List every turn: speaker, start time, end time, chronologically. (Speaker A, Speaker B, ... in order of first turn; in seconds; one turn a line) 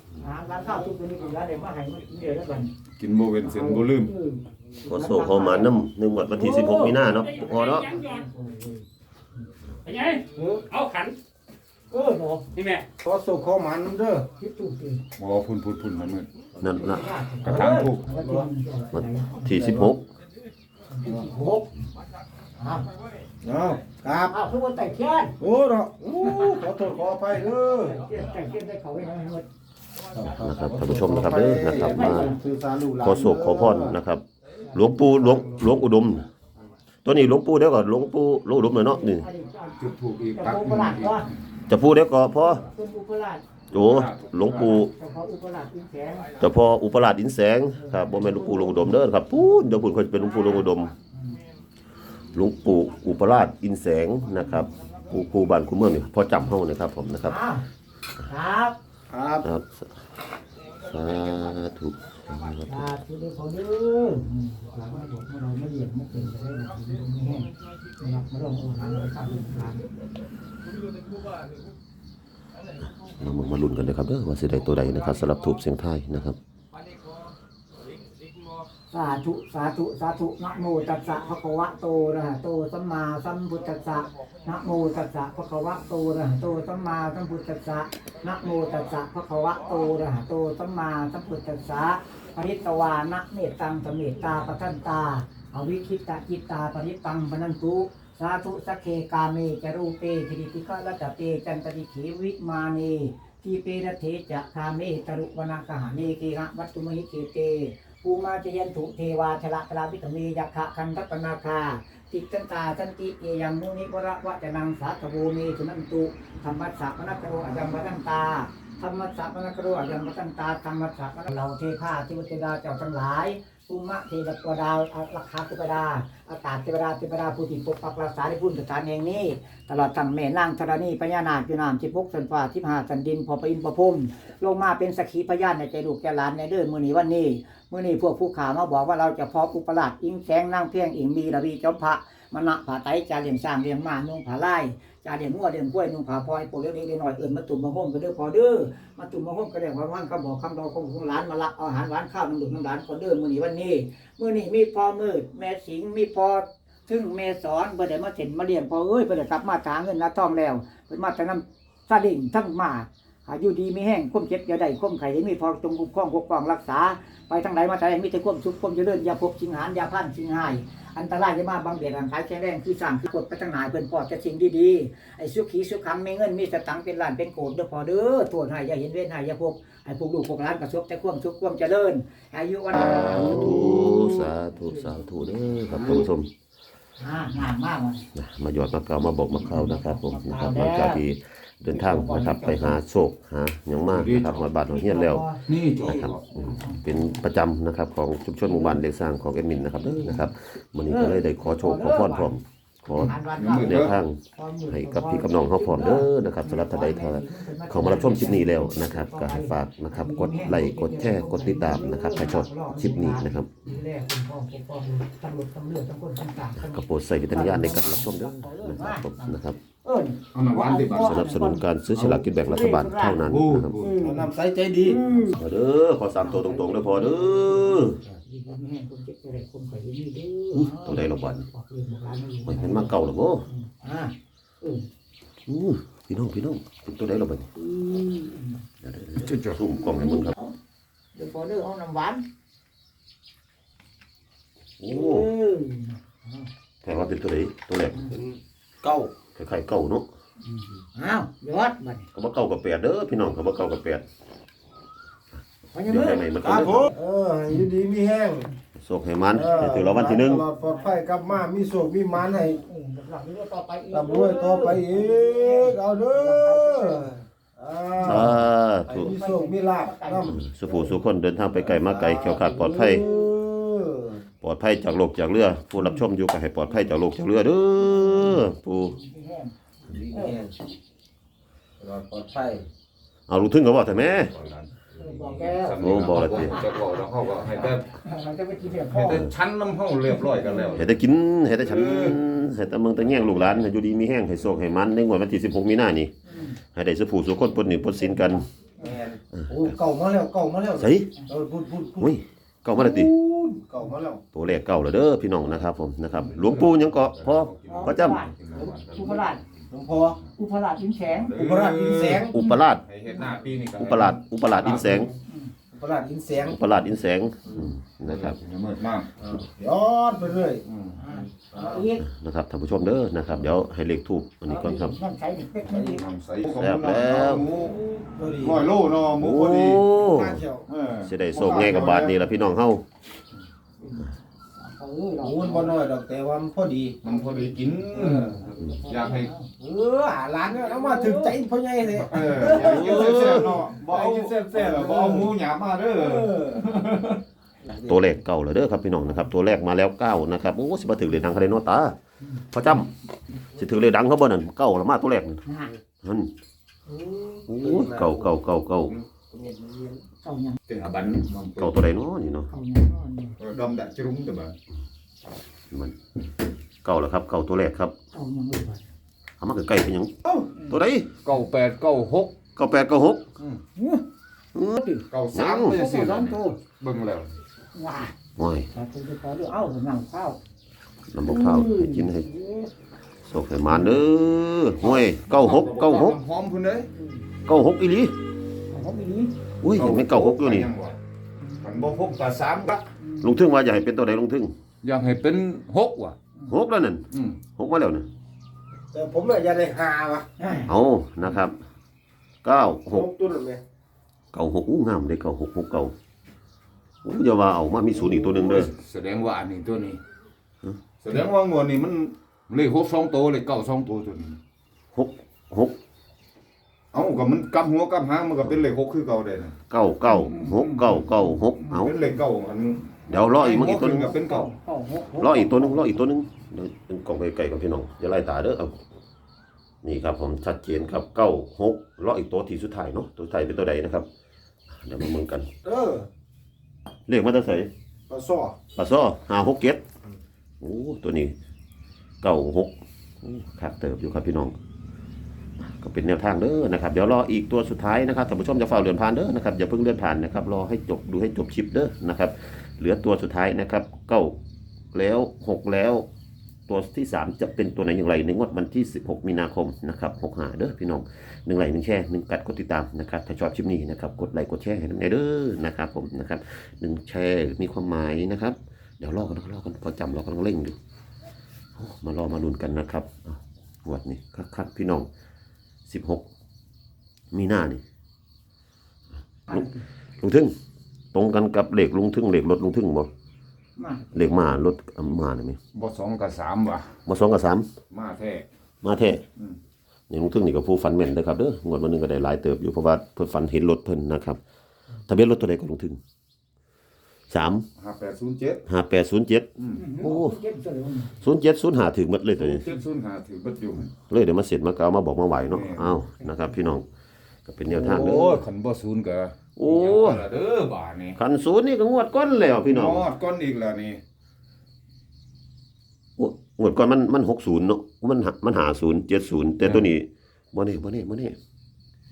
Speaker A: 0.2-2.7
Speaker B: 3.0-4.1
Speaker A: 3.4-5.8
Speaker C: 4.9-8.0
Speaker A: 6.3-8.8
Speaker D: 7.3-8.1
Speaker D: 9.8-11.2
Speaker E: 10.3-10.7
Speaker A: 11.9-12.5
Speaker D: 12.6-12.9
Speaker E: 13.0-14.3
Speaker A: 14.4-15.0
Speaker B: 15.2-16.3
Speaker C: 16.6-17.1
Speaker A: 16.8-19.5
Speaker B: 17.4-18.1
Speaker E: 18.1-18.5
Speaker C: 18.9-20.1
Speaker E: 19.5-19.9
Speaker A: 20.9-21.7
Speaker A: 22.6-22.9
Speaker E: 23.4-24.4
Speaker A: 24.3-25.4
Speaker E: 25.4-28.0
Speaker A: 26.2-26.6
Speaker A: 27.4-29.5
Speaker E: 30.1-34.0
Speaker C: 30.3-32.4
Speaker A: 31.8-32.4
Speaker C: 33.0-36.3
Speaker C: 37.0-39.3
Speaker A: 38.7-41.3
Speaker B: 39.8-41.3
Speaker C: 41.7-42.6
Speaker A: 42.6-43.4
Speaker C: 43.7-44.9
Speaker B: 43.8-44.8
Speaker A: 44.5-46.4
Speaker C: 46.4-50.9
Speaker A: 47.7-49.0
Speaker A: 50.3-50.6
Speaker A: 51.1-51.4
Speaker C: 52.3-57.4
Speaker A: 57.2-57.7
Speaker A: 58.3-58.8
Speaker E: 59.1-59.5
Speaker C: 59.4-60.0
Speaker C: 60.8-62.9
Speaker A: 62.7-69.8
Speaker C: 72.8-76.4
Speaker A: 78.9-186.1
Speaker C: 182.7-186.3
Speaker E: 183.3-183.8
Speaker A: 187.0-188.1
Speaker C: 188.1-195.3
Speaker A: 189.3-191.0
Speaker A: 191.7-192.8
Speaker B: 193.9-194.5
Speaker A: 194.7-197.2
Speaker B: 195.5-196.2
Speaker C: 195.8-213.7
Speaker A: 198.5-198.8
Speaker A: 199.8-200.3
Speaker A: 200.9-202.3
Speaker A: 202.9-221.6
Speaker B: 203.0-204.0
Speaker C: 216.6-219.6
Speaker B: 220.3-221.4
Speaker C: 221.0-223.8
Speaker B: 221.9-222.3
Speaker A: 222.3-223.2
Speaker B: 223.2-224.3
Speaker A: 223.8-224.2
Speaker E: 223.8-225.2
Speaker A: 224.8-225.4
Speaker C: 225.3-228.0
Speaker A: 226.2-232.9
Speaker C: 230.5-231.5
Speaker C: 232.5-233.5
Speaker A: 233.5-234.9
Speaker C: 235.5-237.5
Speaker A: 237.6-238.6
Speaker C: 238.8-240.3
Speaker B: 239.2-239.6
Speaker A: 239.8-240.6
Speaker A: 241.2-242.2
Speaker C: 244.8-245.3
Speaker A: 244.9-246.5
Speaker C: 246.8-248.1
Speaker E: 248.1-249.1
Speaker C: 249.3-250.1
Speaker A: 250.5-252.1
Speaker C: 252.1-254.0
Speaker A: 255.7-256.3
Speaker C: 255.8-256.9
Speaker E: 256.4-258.5
Speaker C: 258.8-260.4
Speaker E: 259.3-262.6
Speaker A: 260.3-261.5
Speaker A: 262.1-267.1
Speaker E: 263.9-271.0
Speaker A: 268.0-268.4
Speaker C: 268.0-269.1
Speaker A: 268.9-270.4
Speaker C: 270.3-273.0
Speaker E: 271.5-274.2
Speaker A: 272.7-273.3
Speaker C: 274.4-279.0
Speaker A: 275.8-276.1
Speaker A: 277.8-279.5
Speaker E: 279.9-280.5
Speaker A: 280.1-280.4
Speaker E: 281.8-282.7
Speaker C: 283.3-284.3
Speaker B: 283.9-287.9
Speaker A: 285.0-286.9
Speaker C: 285.8-286.6
Speaker A: 287.4-289.3
Speaker B: 288.7-290.9
Speaker A: 290.1-290.9
Speaker C: 290.8-298.5
Speaker B: 291.6-292.2
Speaker B: 293.1-293.6
Speaker A: 296.3-296.6
Speaker A: 298.2-298.9
Speaker E: 298.8-302.1
Speaker C: 299.3-299.8
Speaker C: 300.8-301.1
Speaker C: 302.0-303.1
Speaker E: 302.8-304.2
Speaker C: 304.3-308.2
Speaker B: 306.3-309.4
Speaker A: 307.7-309.4
Speaker E: 309.7-310.2
Speaker A: 310.4-311.4
Speaker B: 311.1-315.1
Speaker E: 311.4-312.4
Speaker C: 312.3-312.8
Speaker A: 312.4-313.3
Speaker C: 313.8-315.1
Speaker A: 315.0-315.5
Speaker E: 315.7-316.6
Speaker C: 316.4-318.4
Speaker B: 318.0-319.1
Speaker E: 319.2-320.6
Speaker B: 320.6-321.0
Speaker A: 321.0-322.1
Speaker E: 321.4-321.9
Speaker C: 322.0-325.0
Speaker A: 324.5-326.0
Speaker B: 325.7-327.8
Speaker C: 326.5-327.5
Speaker A: 327.5-328.1
Speaker E: 328.1-328.7
Speaker B: 328.4-329.9
Speaker C: 329.2-330.4
Speaker E: 329.3-330.6
Speaker B: 330.7-332.2
Speaker C: 331.0-332.8
Speaker A: 333.8-335.8
Speaker E: 335.2-337.0
Speaker B: 337.0-339.3
Speaker E: 337.9-338.4
Speaker A: 338.4-339.5
Speaker E: 339.6-345.4
Speaker A: 340.5-341.4
Speaker B: 341.9-347.2
Speaker C: 342.6-343.6
Speaker E: 345.9-346.7
Speaker E: 347.6-348.1
Speaker C: 347.7-351.9
Speaker C: 352.5-352.9
Speaker C: 353.5-355.4
Speaker A: 355.4-355.7
Speaker C: 356.0-356.3
Speaker A: 356.9-357.5
Speaker C: 357.5-359.0
Speaker E: 357.6-358.3
Speaker E: 359.2-360.0
Speaker A: 360.2-360.6
Speaker B: 360.7-361.9
Speaker C: 361.6-362.5
Speaker A: 362.5-363.4
Speaker B: 363.4-364.6
Speaker C: 366.8-367.9
Speaker A: 368.1-368.9
Speaker C: 369.4-370.1
Speaker A: 370.5-370.8
Speaker C: 370.7-371.1
Speaker B: 371.2-372.4
Speaker C: 372.6-373.3
Speaker B: 373.4-373.6
Speaker A: 373.8-374.1
Speaker C: 374.6-374.8
Speaker A: 374.7-375.0
Speaker B: 375.1-377.3
Speaker C: 375.3-375.8
Speaker A: 375.7-376.6
Speaker A: 377.8-378.1
Speaker C: 378.4-378.7
Speaker A: 378.7-380.4
Speaker C: 381.1-382.3
Speaker A: 381.2-382.7
Speaker C: 383.3-386.2
Speaker A: 383.7-384.0
Speaker B: 384.8-386.9
Speaker A: 386.9-387.3
Speaker C: 387.4-388.1
Speaker A: 388.7-389.3
Speaker C: 389.6-390.7
Speaker B: 389.7-391.0
Speaker B: 391.6-392.9
Speaker A: 393.0-393.3
Speaker C: 393.2-394.5
Speaker B: 394.8-396.2
Speaker C: 396.5-398.1
Speaker B: 397.1-397.4
Speaker E: 398.9-400.3
Speaker A: 400.4-400.7
Speaker C: 400.7-401.6
Speaker C: 402.4-403.1
Speaker E: 402.9-403.6
Speaker C: 404.3-405.9
Speaker C: 407.0-408.7
Speaker B: 407.9-410.0
Speaker B: 411.0-414.4
Speaker C: 414.9-415.8
Speaker B: 416.9-419.6
Speaker C: 419.7-422.0
Speaker A: 420.1-422.1
Speaker B: 421.7-424.5
Speaker C: 423.1-424.2
Speaker A: 424.1-425.8
Speaker C: 425.2-428.8
Speaker C: 429.8-434.1
Speaker C: 434.7-435.5
Speaker E: 435.6-436.1
Speaker C: 437.1-437.7
Speaker E: 438.1-438.6
Speaker C: 438.8-439.8
Speaker C: 440.6-441.4
Speaker C: 442.2-444.6
Speaker C: 445.6-454.4
Speaker C: 454.9-456.1
Speaker C: 456.7-470.8
Speaker C: 471.8-475.1
Speaker C: 475.9-476.2
Speaker C: 477.3-477.8
Speaker A: 479.5-479.8
Speaker C: 479.5-480.5
Speaker C: 481.1-483.1
Speaker A: 483.8-484.1
Speaker C: 484.1-485.6
Speaker B: 485.7-487.0
Speaker C: 487.1-487.7
Speaker B: 487.9-488.5
Speaker C: 488.8-489.2
Speaker C: 490.1-494.4
Speaker C: 495.1-496.0
Speaker C: 497.3-497.7
Speaker B: 497.8-498.6
Speaker C: 498.7-500.4
Speaker A: 499.8-501.2
Speaker C: 501.2-502.7
Speaker B: 502.4-503.9
Speaker C: 504.1-506.9
Speaker B: 505.5-506.0
Speaker C: 507.5-508.4
Speaker B: 507.7-511.2
Speaker C: 509.6-510.3
Speaker C: 511.2-513.1
Speaker B: 512.7-514.0
Speaker C: 516.2-521.4
Speaker B: 519.6-519.9